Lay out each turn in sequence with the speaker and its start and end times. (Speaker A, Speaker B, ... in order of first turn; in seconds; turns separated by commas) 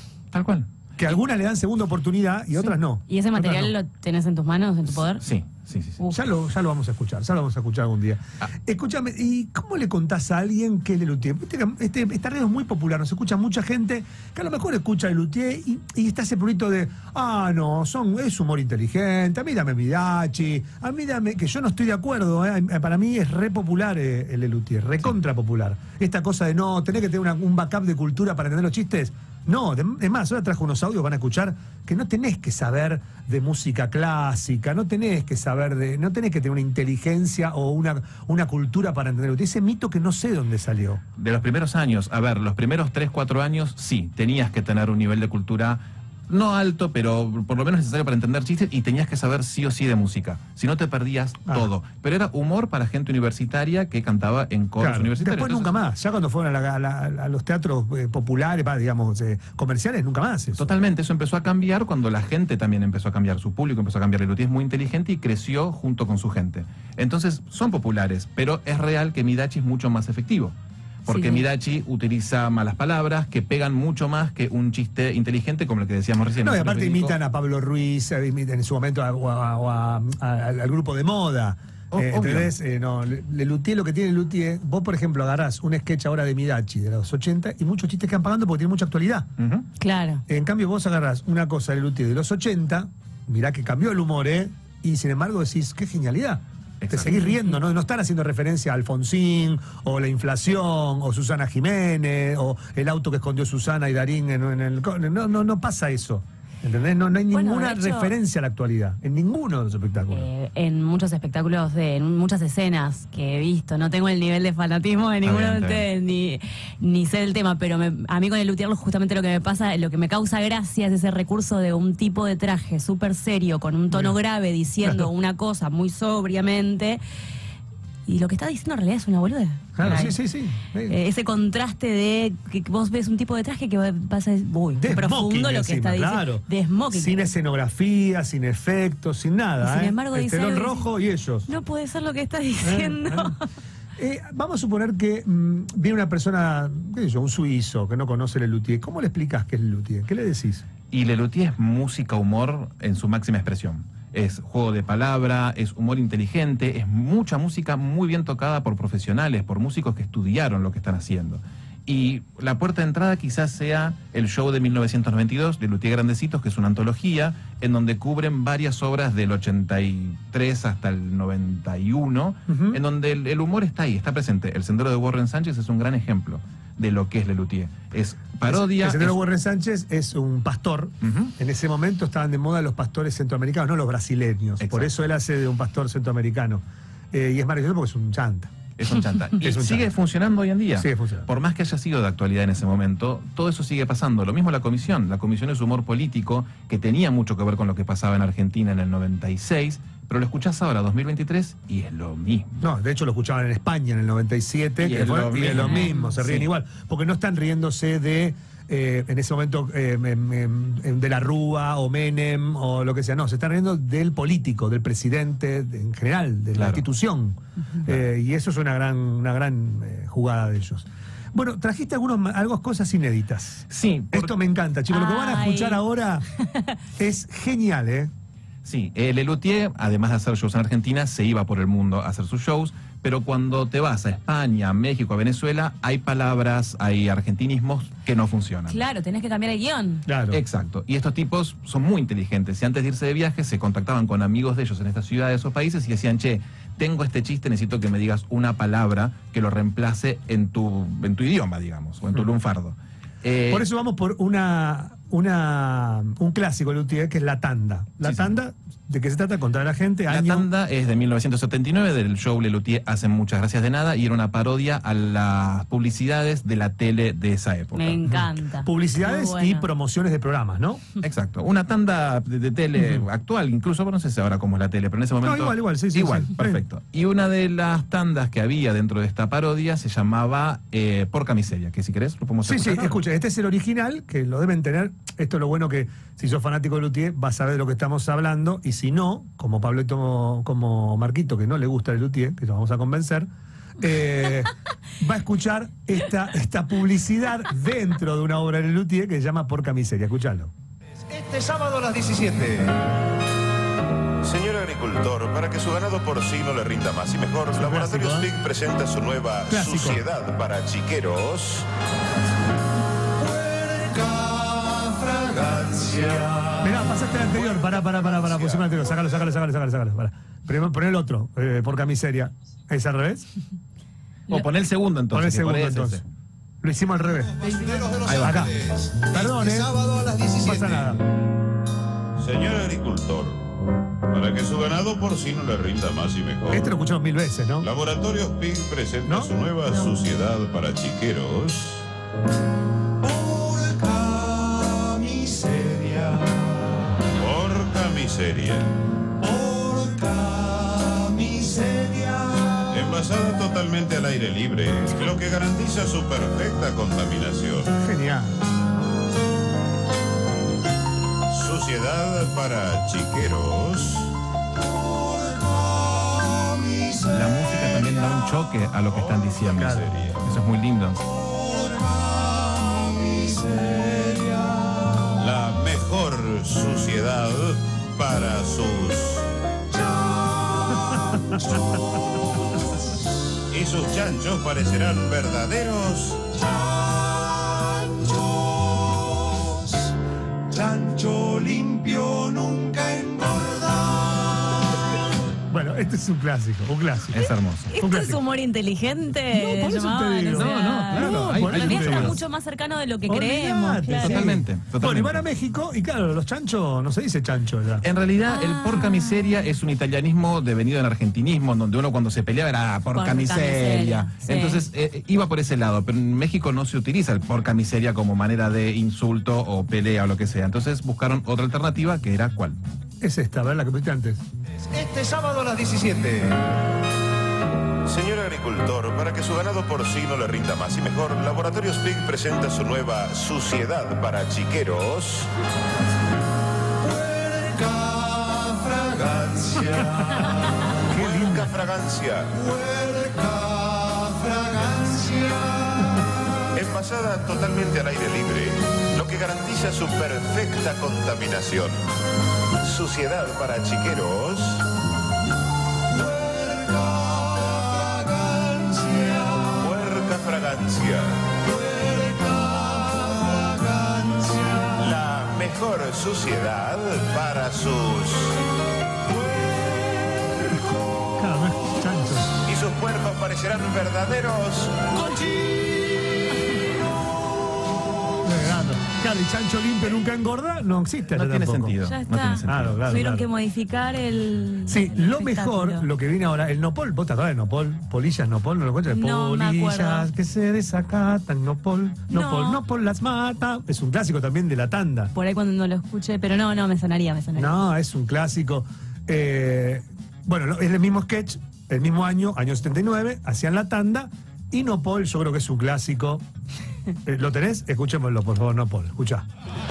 Speaker A: 0.3-0.7, Speaker B: 1.0-3.7, Speaker C: 3.1-5.2, Speaker A: 5.2-6.0, Speaker B: 6.1-41.0, Speaker A: 41.2-55.8, Speaker B: 54.8-60.7, Speaker A: 60.5-77.1, Speaker C: 71.1-71.4, Speaker B: 76.4-89.3, Speaker A: 81.9-82.5, Speaker A: 89.4-89.7, Speaker C: 89.8-90.2, Speaker B: 90.3-110.3, Speaker A: 96.8-97.2, Speaker C: 107.3-108.1, Speaker C: 110.1-127.0, Speaker A: 115.2-115.9, Speaker C: 128.1-130.2, Speaker B: 129.8-130.9, Speaker C: 130.9-137.2, Speaker B: 134.8-141.5, Speaker C: 139.6-140.9, Speaker C: 141.5-143.4, Speaker B: 142.6-143.3, Speaker B: 144.0-150.7, Speaker A: 150.9-179.2, Speaker B: 172.5-172.8, Speaker B: 178.5-188.5, Speaker A: 181.0-181.3, Speaker A: 184.6-184.9, Speaker A: 188.8-202.6, Speaker B: 189.4-189.9, Speaker B: 190.8-191.3, Speaker B: 202.6-226.2, Speaker A: 204.8-206.5, Speaker C: 205.6-206.0, Speaker A: 216.5-216.8, Speaker A: 223.7-224.3, Speaker C: 224.9-225.8, Speaker C: 226.4-226.7, Speaker B: 227.0-228.1, Speaker A: 228.6-238.8, Speaker C: 238.7-240.1, Speaker B: 240.1-240.4, Speaker A: 240.3-253.6, Speaker B: 253.5-260.5, Speaker A: 258.0-258.3, Speaker A: 260.1-268.0, Speaker C: 267.7-269.7, Speaker B: 268.1-270.8, Speaker A: 271.0-283.0, Speaker B: 272.8-273.0, Speaker B: 275.2-276.6, Speaker B: 282.4-300.5, Speaker D: 301.1-302.7, Speaker E: 304.2-311.6, Speaker B: 307.5-308.3, Speaker B: 309.5-310.0, Speaker D: 313.2-316.8, Speaker B: 316.6-323.3, Speaker E: 318.2-318.6, Speaker A: 324.3-326.0, Speaker B: 325.1-326.0, Speaker B: 326.6-327.4, Speaker D: 327.4-330.8, Speaker A: 328.0-328.5, Speaker B: 328.2-329.7, Speaker B: 330.4-331.0, Speaker E: 332.2-333.4, Speaker E: 334.1-336.7, Speaker B: 336.5-337.7, Speaker E: 337.6-341.9, Speaker B: 339.0-339.3, Speaker D: 343.0-346.5, Speaker E: 347.2-348.8, Speaker D: 349.2-352.8, Speaker E: 352.7-357.8, Speaker B: 357.8-358.4, Speaker E: 361.3-364.1, Speaker D: 364.6-367.6, Speaker A: 367.1-371.0, Speaker E: 368.9-370.2, Speaker B: 369.6-369.9, Speaker D: 371.3-375.1, Speaker E: 375.2-379.3, Speaker D: 379.8-382.7, Speaker E: 383.5-386.3, Speaker D: 386.4-389.8, Speaker D: 390.5-394.8, Speaker B: 395.5-397.2, Speaker A: 397.1-397.8, Speaker C: 397.7-404.3, Speaker B: 397.8-398.2, Speaker B: 399.3-402.2, Speaker A: 400.3-402.2, Speaker B: 403.1-407.9, Speaker A: 403.9-405.2, Speaker A: 407.8-422.6, Speaker C: 408.4-409.1, Speaker C: 412.9-414.6, Speaker B: 423.0-424.2, Speaker D: 424.7-426.3, Speaker E: 427.9-435.3, Speaker D: 436.8-440.6, Speaker B: 440.9-441.5, Speaker E: 440.9-442.3, Speaker D: 442.3-446.1, Speaker E: 446.5-451.8, Speaker E: 452.6-454.6, Speaker D: 455.9-459.7, Speaker E: 459.6-461.2, Speaker D: 461.4-464.9, Speaker E: 464.8-468.4, Speaker D: 469.1-470.3, Speaker B: 471.2-472.4, Speaker E: 472.4-474.9, Speaker D: 475.0-475.6, Speaker B: 478.2-481.8, Speaker A: 481.1-482.9, Speaker C: 481.8-485.9, Speaker B: 482.4-483.3, Speaker B: 484.7-495.1, Speaker C: 488.9-490.1, Speaker C: 492.1-492.6, Speaker C: 495.1-497.6, Speaker B: 497.4-506.2, Speaker B: 507.1-509.2